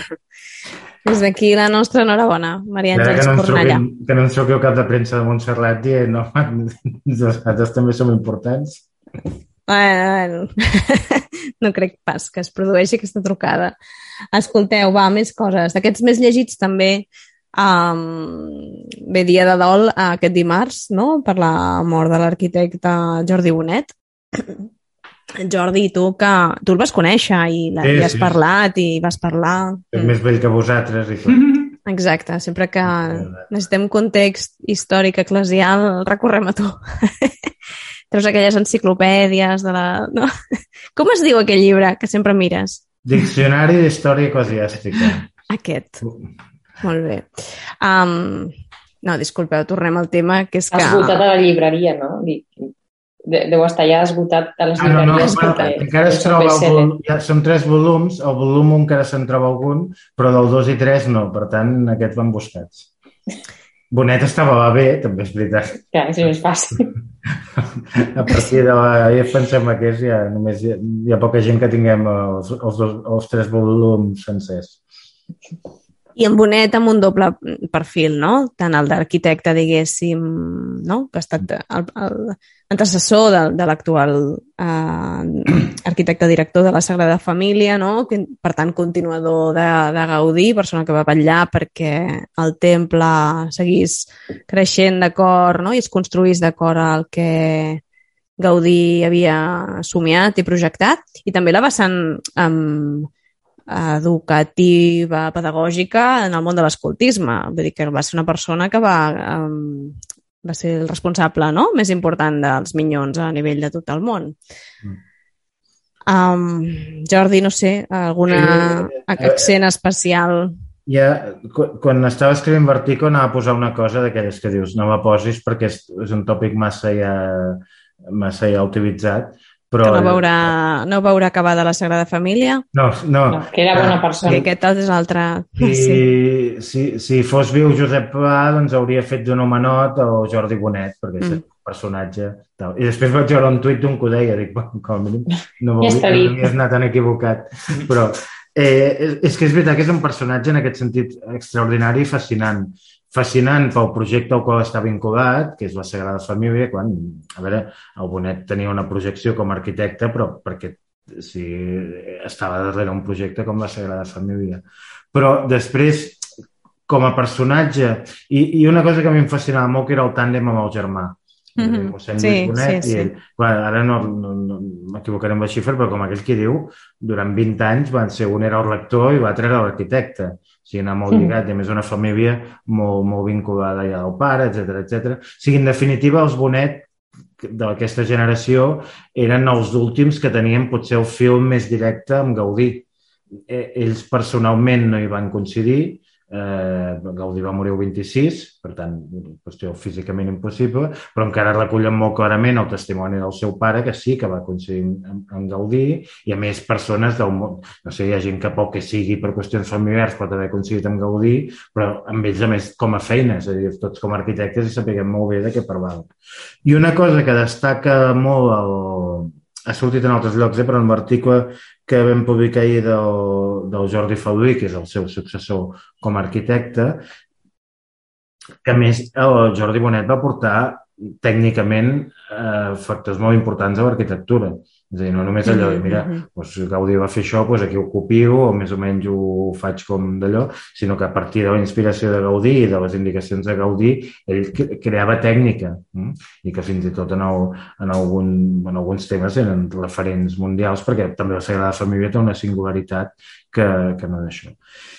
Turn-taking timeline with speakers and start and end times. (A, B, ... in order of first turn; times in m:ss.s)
0:01.0-0:03.8 A
0:02.9-0:08.8 B
0:09.7-0:13.7 A
0:14.3-0:24.5 A
0:25.4-0:30.2 A
0:27.8-0:28.4 B
0:29.9-0:31.4 B
0:31.8-0:37.5 A
0:32.9-0:33.4 B
0:38.1-0:40.3 A
0:41.0-0:42.8 A
0:43.0-0:45.3 B
0:45.5-0:46.0 A
0:46.8-0:51.2 A
0:50.7-0:52.7 C
0:53.2-0:56.9 C
0:54.8-1:02.9 B
0:55.0-0:55.7 A
1:03.9-1:05.8 B
1:05.9-1:06.9 C
1:07.5-1:14.8 B
1:16.2-1:37.8 A
1:38.4-1:43.1 A
1:43.7-1:54.4 A
1:56.1-2:00.5 A
1:58.3-1:59.5 B
2:00.8-2:10.5 B
2:09.8-2:12.6 A
2:12.7-2:14.0 B
2:13.3-2:14.5 C
2:14.2-2:16.0 A
2:15.6-2:46.2 B
2:25.8-2:26.5 C
2:46.9-3:06.9 B
2:51.6-2:53.1 A
3:07.4-3:12.9 B
3:13.5-3:36.1 B
3:36.6-3:47.0 B
3:48.6-4:14.6 B
3:55.4-3:56.2 A